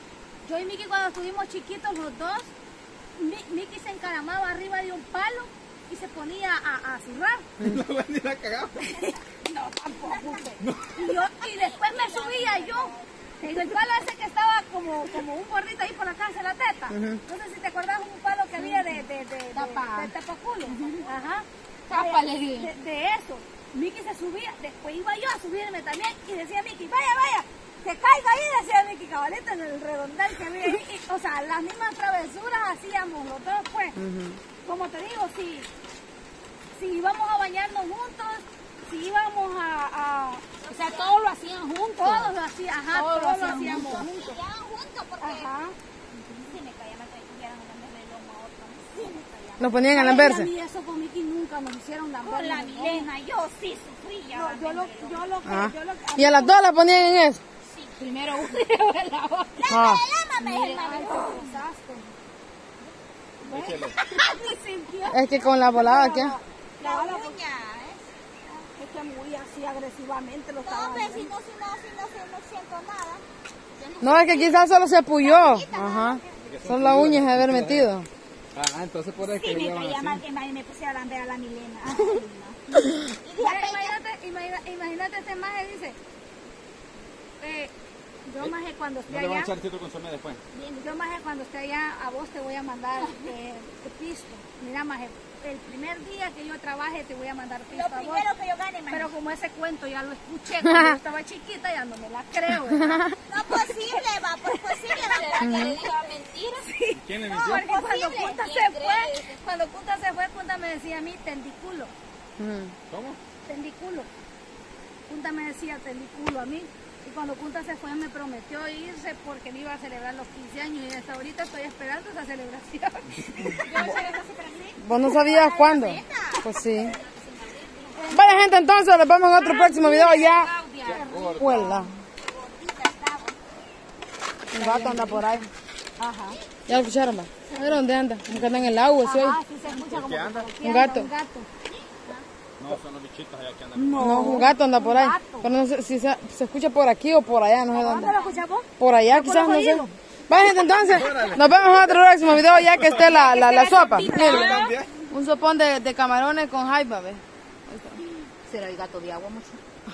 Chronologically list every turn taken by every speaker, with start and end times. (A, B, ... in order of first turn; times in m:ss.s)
0:00.4-0:02.5 A
0:03.2-0:07.6 A
0:07.6-0:08.9 B
0:09.4-0:34.0 A
0:10.0-0:10.5 C
0:10.6-0:11.0 B
0:11.1-0:13.1 C
0:16.9-0:17.2 D
0:18.6-0:20.1 E
0:20.6-0:21.1 E
0:21.9-0:22.7 E
0:34.0-0:34.4 D
0:34.6-0:35.7 A
0:36.7-0:40.4 A
0:40.6-0:41.1 C
0:40.7-0:42.3 E
0:41.9-0:44.3 A
0:42.9-0:44.1 E
0:43.8-0:45.5 C
0:45.2-0:45.8 A
0:46.1-0:46.4 E
0:46.4-0:49.8 C
0:49.6-0:50.5 D
0:49.8-0:53.1 A
0:52.2-0:55.2 C
0:54.3-0:56.7 A
0:55.4-0:57.4 D
0:57.7-0:58.0 C
0:58.0-0:59.6 E
0:59.6-1:01.5 C
0:59.7-1:00.0 D
1:00.4-1:01.0 E
1:00.8-1:02.1 A
1:03.4-1:04.0 B
1:03.4-1:07.4 A
1:05.1-1:06.3 D
1:06.8-1:08.0 C
1:08.5-1:11.3 A
1:10.6-1:16.3 C
1:14.0-1:18.1 D
1:16.4-1:17.9 B
1:18.5-1:20.2 B
1:19.2-1:24.0 C
1:23.4-1:26.0 A
1:27.4-1:27.7 A
1:28.3-1:29.5 A
1:29.1-1:30.4 B
1:30.5-1:31.0 C
1:30.8-1:38.2 A
1:33.0-1:33.3 C
1:37.7-1:39.1 C
1:38.9-1:43.8 A
1:42.7-1:43.1 D
1:43.3-1:46.2 C
1:44.8-1:46.7 E
1:45.4-1:45.8 D
1:46.7-1:51.9 A
1:46.9-1:47.6 B
1:47.4-1:48.9 C
1:48.2-1:49.3 E
1:52.4-1:52.7 D
1:52.9-1:53.2 B
1:53.4-1:54.1 A
1:55.1-2:03.9 A
2:03.6-2:07.0 C
2:03.7-2:04.0 E
2:04.8-2:06.9 D
2:06.7-2:07.9 E
2:07.9-2:08.6 A
2:08.1-2:10.5 D
2:09.3-2:11.1 E
2:10.8-2:11.8 B
2:10.8-2:11.9 A
2:11.3-2:11.9 D
2:12.2-2:13.4 C
2:14.5-2:15.4 D
2:14.6-2:15.2 A
2:14.7-2:15.3 E
2:16.0-2:16.4 A
2:16.7-2:19.4 D
2:17.5-2:17.8 A
2:18.3-2:18.6 B
2:19.0-2:21.5 A
2:19.7-2:20.5 B
2:20.6-2:21.1 D
2:21.7-2:22.2 C
2:22.6-2:24.4 B
2:23.7-2:25.5 A
2:24.0-2:28.1 D
2:27.7-2:31.4 A
2:28.1-2:28.4 C
2:28.8-2:38.0 D
2:30.8-2:33.3 B
2:33.1-2:34.6 E
2:33.3-2:34.3 A
2:33.8-2:34.8 C
2:34.2-2:34.9 B
2:38.4-2:39.6 E